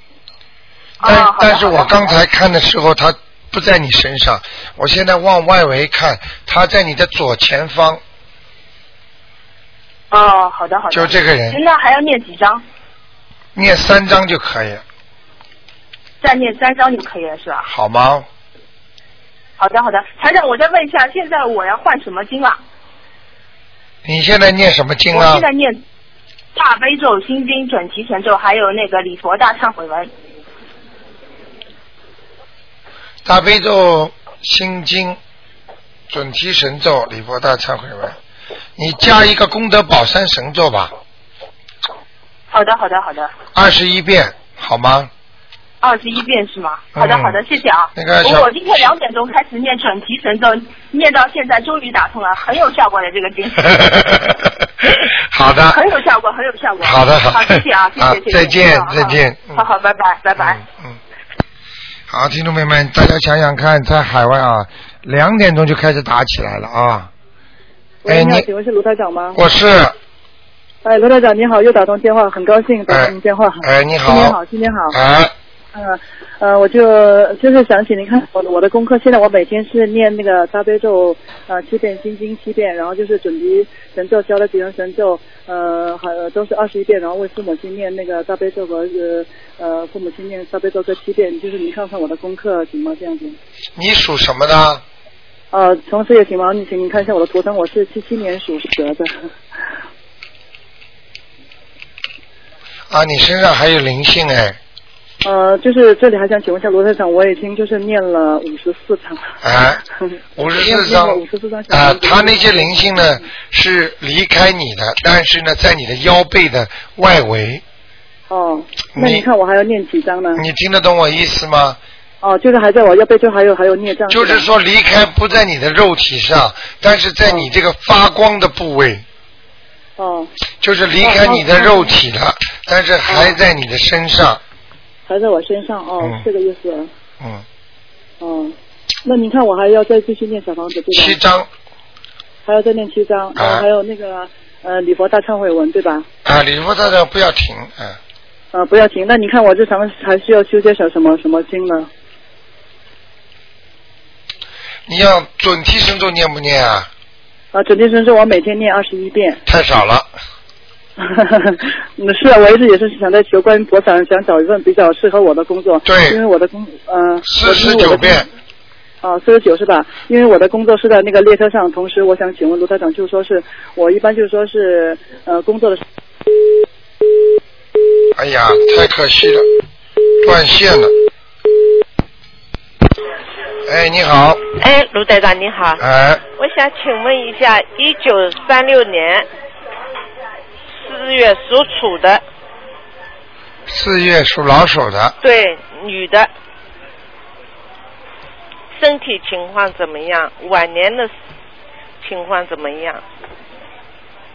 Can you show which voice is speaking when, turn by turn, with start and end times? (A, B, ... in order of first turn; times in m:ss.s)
0:01.0-0:02.2 A
0:01.0-0:08.0 B
0:10.1-0:12.6 A
0:10.9-0:11.6 B
0:13.5-0:14.8 B
0:16.2-0:17.7 A
0:17.7-0:18.2 B
0:19.6-0:22.6 A
0:24.0-0:25.4 B
0:25.1-0:25.8 A
0:26.5-0:30.1 A
0:33.2-0:35.2 B
0:36.1-0:38.2 B
0:38.8-0:40.9 B
0:42.5-0:43.3 A
0:43.5-0:45.1 B
0:45.8-0:53.8 A
0:46.9-0:47.4 B
0:47.9-0:48.5 B
0:53.7-0:55.8 B
0:55.7-1:00.6 A
0:56.8-0:59.6 B
1:00.4-1:01.0 B
1:02.1-1:07.1 B
1:08.0-1:09.4 C
1:08.0-1:08.5 B
1:09.3-1:10.0 B
1:10.8-1:15.0 C
1:12.9-1:14.4 B
1:14.9-1:15.3 B
1:15.7-1:33.4 C
1:33.8-1:34.8 B
1:35.5-1:39.1 C
1:42.9-1:44.6 B
1:45.2-1:49.3 C
1:49.4-1:49.8 B
1:50.4-1:57.6 B
1:50.4-1:53.2 C
1:58.3-2:00.4 C
1:58.9-1:59.3 B
2:00.3-2:01.8 B
2:02.2-2:04.5 C
2:04.1-2:09.0 B
2:10.0-2:10.3 C
2:10.6-2:14.4 B
2:11.0-2:11.9 C
2:15.1-2:16.9 C
2:17.2-2:17.4 B
2:18.2-2:21.2 C
2:20.9-2:21.5 B
2:22.4-2:26.1 C
2:23.4-2:23.6 B
2:26.2-2:28.0 B
2:28.5-2:31.9 C
2:34.9-2:36.9 B
2:37.5-2:39.4 C
2:39.4-2:40.1 B
2:41.0-2:48.3 C
2:45.8-2:46.2 B
2:47.2-2:48.3 B
2:49.0-2:55.8 C
2:58.1-2:59.4 B
3:00.2-3:00.9 B
3:03.6-3:04.4 B
3:04.5-3:05.8 D
3:05.8-3:06.2 B
3:06.4-3:09.2 D
3:10.7-3:12.2 D
3:13.7-3:15.2 B
3:15.2-3:16.3 D
3:18.7-3:21.1 D
3:22.0-3:23.0 D